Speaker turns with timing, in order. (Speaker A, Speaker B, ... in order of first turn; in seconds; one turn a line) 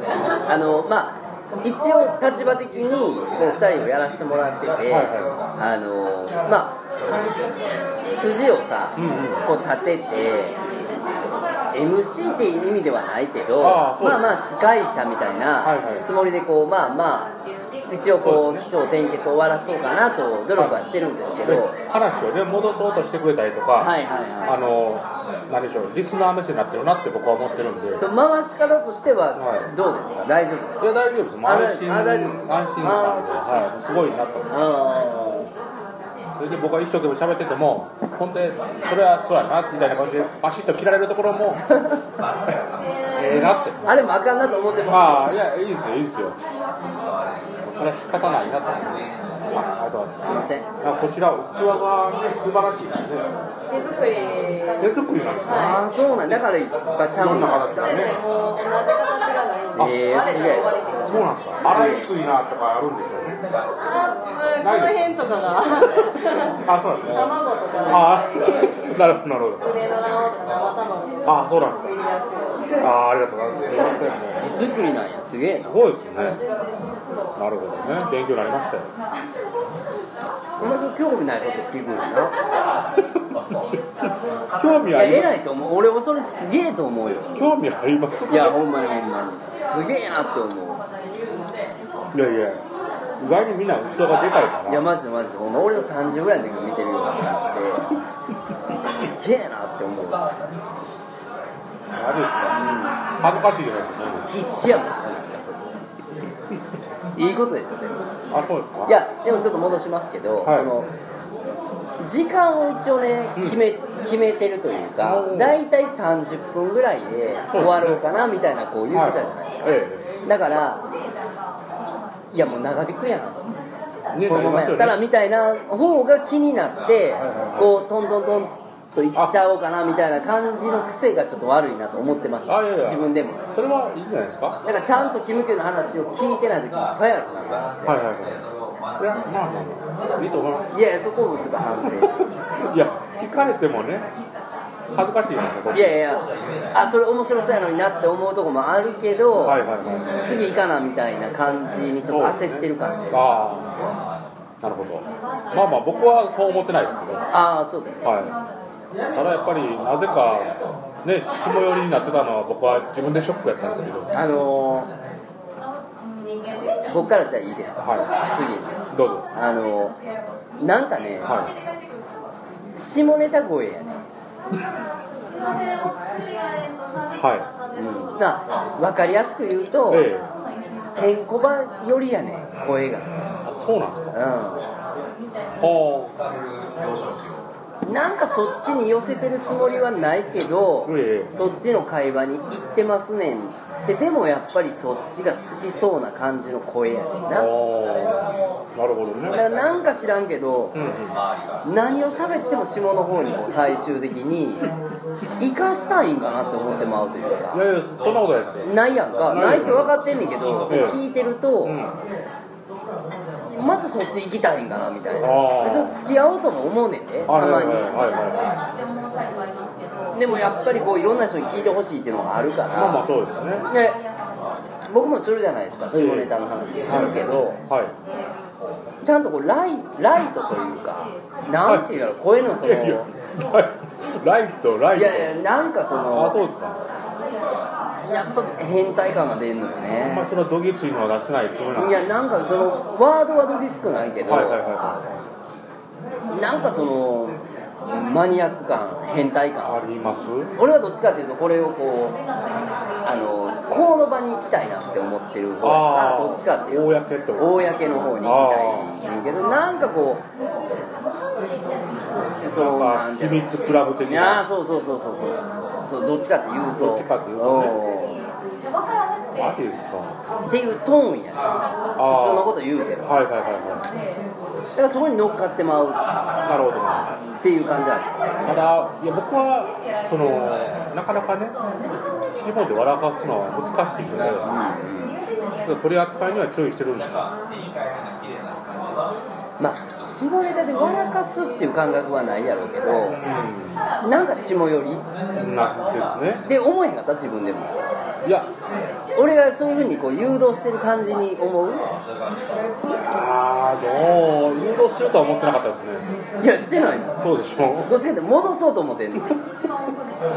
Speaker A: 0.2-6.8
Speaker B: 4.9-5.4
Speaker A: 8.1-10.6
Speaker B: 8.9-9.4
Speaker A: 11.7-17.3
Speaker B: 13.6-14.3
Speaker B: 15.6-16.1
Speaker A: 17.9-21.8
Speaker B: 18.2-18.6
Speaker B: 20.6-20.8
Speaker B: 21.4-28.0
Speaker A: 23.8-24.6
Speaker A: 28.0-30.9
Speaker B: 29.4-29.7
Speaker B: 30.8-34.5
Speaker A: 31.4-33.7
Speaker A: 34.5-35.5
Speaker B: 36.4-41.6
Speaker A: 41.7-42.0
Speaker B: 43.1-43.8
Speaker A: 43.8-45.3
Speaker B: 44.9-46.4
Speaker B: 47.6-53.3
Speaker A: 50.2-50.6
Speaker C: 53.7-55.8
Speaker B: 54.8-56.5
Speaker A: 55.5-57.9
Speaker B: 57.1-58.2
Speaker C: 57.7-61.3
Speaker A: 59.8-60.7
Speaker B: 61.0-63.4
Speaker A: 61.6-62.1
Speaker C: 63.8-69.0
Speaker B: 64.6-65.1
Speaker B: 66.5-67.3
Speaker B: 67.8-69.8
Speaker C: 69.6-72.9
Speaker B: 71.2-72.0
Speaker B: 72.8-74.5
Speaker A: 73.8-75.7
Speaker B: 75.6-76.4
Speaker B: 77.3-78.9
Speaker A: 80.6-82.3
Speaker B: 84.5-85.3
Speaker A: 84.9-87.4
Speaker B: 87.3-88.6
Speaker A: 88.3-90.8
Speaker B: 92.1-92.6
Speaker B: 93.2-94.9
Speaker A: 94.7-97.9
Speaker A: 98.9-100.3
Speaker B: 101.9-102.6
Speaker A: 102.5-103.0
Speaker B: 103.2-104.3
Speaker A: 104.3-105.6
Speaker A: 107.2-108.0
Speaker B: 108.3-109.0
Speaker A: 108.8-110.9
Speaker B: 110.4-110.7
Speaker A: 112.0-120.8
Speaker B: 115.0-115.6
Speaker B: 117.5-118.0
Speaker B: 118.9-120.1
Speaker A: 122.3-123.5
Speaker B: 124.1-125.0
Speaker A: 124.2-133.5
Speaker B: 127.2-127.8
Speaker B: 132.4-134.6
Speaker A: 134.6-138.0
Speaker B: 137.8-138.4
Speaker B: 139.0-140.8
Speaker A: 140.7-142.2
Speaker B: 141.9-144.1
Speaker B: 144.9-146.2
Speaker A: 145.7-149.6
Speaker B: 149.4-150.1
Speaker A: 150.2-153.2
Speaker B: 152.1-153.8
Speaker B: 154.6-157.2
Speaker A: 157.3-158.0
Speaker B: 158.0-158.3
Speaker B: 159.1-164.1
Speaker A: 164.1-164.9
Speaker A: 166.8-168.8
Speaker B: 167.8-168.1
Speaker B: 168.9-169.3
Speaker A: 169.3-169.9
Speaker A: 170.6-171.5
Speaker B: 171.2-171.5
Speaker A: 172.8-174.0
Speaker B: 177.1-177.5
Speaker A: 177.7-180.1
Speaker B: 179.9-180.3
Speaker A: 180.9-183.1
Speaker B: 183.4-184.2
Speaker A: 184.1-184.6
Speaker B: 185.6-186.1
Speaker A: 187.8-197.5
Speaker B: 190.8-191.3
Speaker B: 197.3-199.4
Speaker A: 199.3-200.8
Speaker B: 200.7-201.1
Speaker A: 201.6-204.7
Speaker A: 205.4-207.6
Speaker B: 207.5-209.9
Speaker A: 208.6-211.8
Speaker B: 210.7-211.0
Speaker B: 211.6-212.0
Speaker A: 213.5-218.2
Speaker B: 215.2-216.0
Speaker B: 217.3-218.6
Speaker A: 220.1-223.1
Speaker B: 222.7-223.7
Speaker A: 223.7-224.0
Speaker A: 224.9-227.6
Speaker B: 225.9-226.3
Speaker B: 226.8-227.9
Speaker A: 229.0-233.1
Speaker B: 231.6-235.4
Speaker A: 234.9-236.4
Speaker B: 236.1-236.8
Speaker A: 238.1-240.3
Speaker B: 239.9-242.2
Speaker A: 241.8-245.0
Speaker B: 244.2-245.0
Speaker A: 246.3-249.7
Speaker B: 249.6-250.5
Speaker A: 250.6-252.2
Speaker A: 253.0-260.2
Speaker B: 255.6-259.0
Speaker B: 262.4-264.4
Speaker A: 262.4-268.2
Speaker B: 266.8-267.8
Speaker B: 269.3-270.2
Speaker A: 270.5-273.2
Speaker B: 272.0-273.9
Speaker A: 274.8-276.0
Speaker B: 276.4-277.1
Speaker A: 277.4-278.1
Speaker B: 278.4-281.6
Speaker B: 282.3-284.5
Speaker A: 284.4-285.2
Speaker B: 285.6-287.3
Speaker A: 289.6-293.2
Speaker B: 293.1-293.8
Speaker A: 294.0-295.1
Speaker B: 295.4-296.4
Speaker A: 296.4-297.8
Speaker A: 299.1-301.9
Speaker B: 303.1-306.1
Speaker A: 306.4-307.2
Speaker B: 307.2-307.9
Speaker A: 307.8-309.4